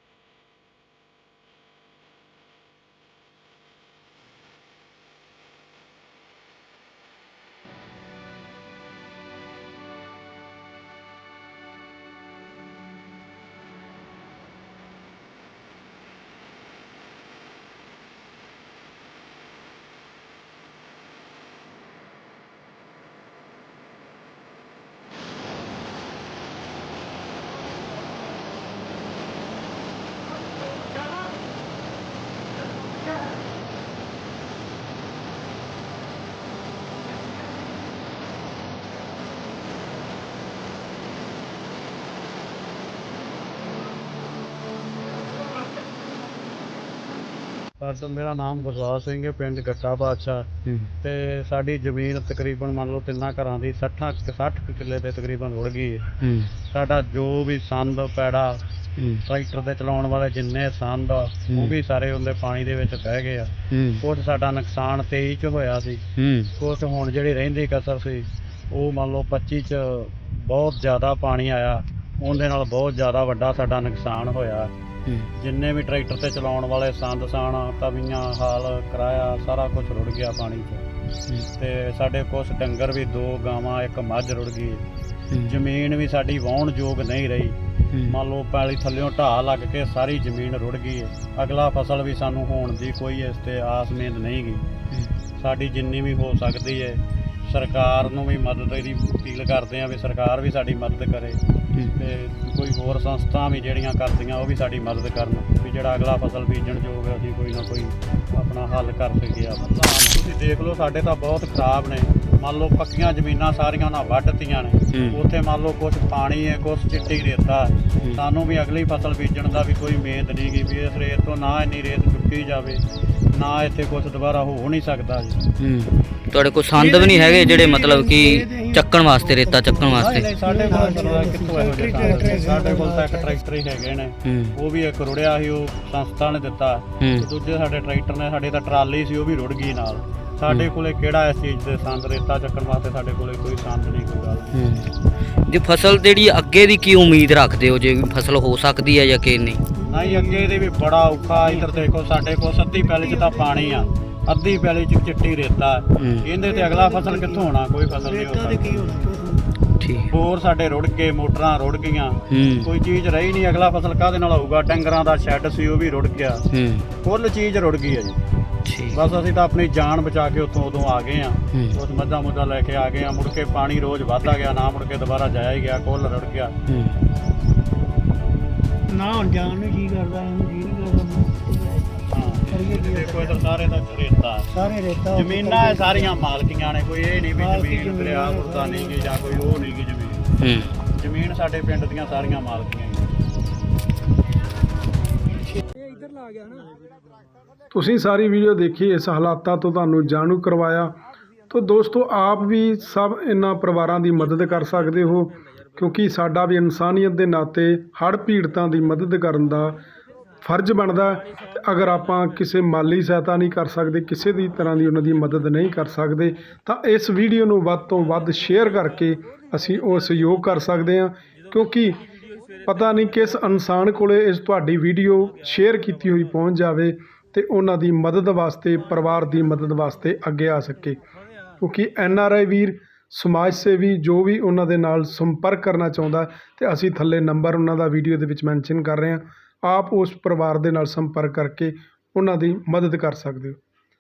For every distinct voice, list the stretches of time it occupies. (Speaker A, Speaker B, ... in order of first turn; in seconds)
Speaker A: 47.8-50.5, 51.0-56.1, 56.7-58.6, 59.2-66.0, 66.6-74.7, 75.4-80.8, 81.6-84.8, 85.5-87.6, 88.1-94.7, 95.4-101.4, 102.0-122.8, 123.3-125.4, 130.0-144.6, 149.9-159.1, 160.1-166.4, 167.0-168.2, 168.9-176.6, 182.1-184.5, 185.1-190.2, 190.9-193.1
Speaker B: 56.2-56.5, 59.0-59.2, 61.5-61.7, 63.7-64.0, 66.2-66.5, 87.9-88.2, 114.9-115.2, 125.6-130.3, 134.2-134.6, 137.0-137.3, 144.5-144.9, 145.5-149.6, 156.0-156.3, 159.8-160.1, 162.3-162.7, 166.5-166.9, 168.7-169.0, 171.5-171.8, 176.7-177.0, 190.4-190.7
Speaker C: 126.7-133.4, 149.8-151.9, 152.7-154.0, 156.4-159.5, 178.9-183.4, 184.5-186.3, 187.3-189.6
Speaker D: 197.7-201.0, 201.5-209.8, 210.4-222.0, 222.7-231.0, 231.6-243.6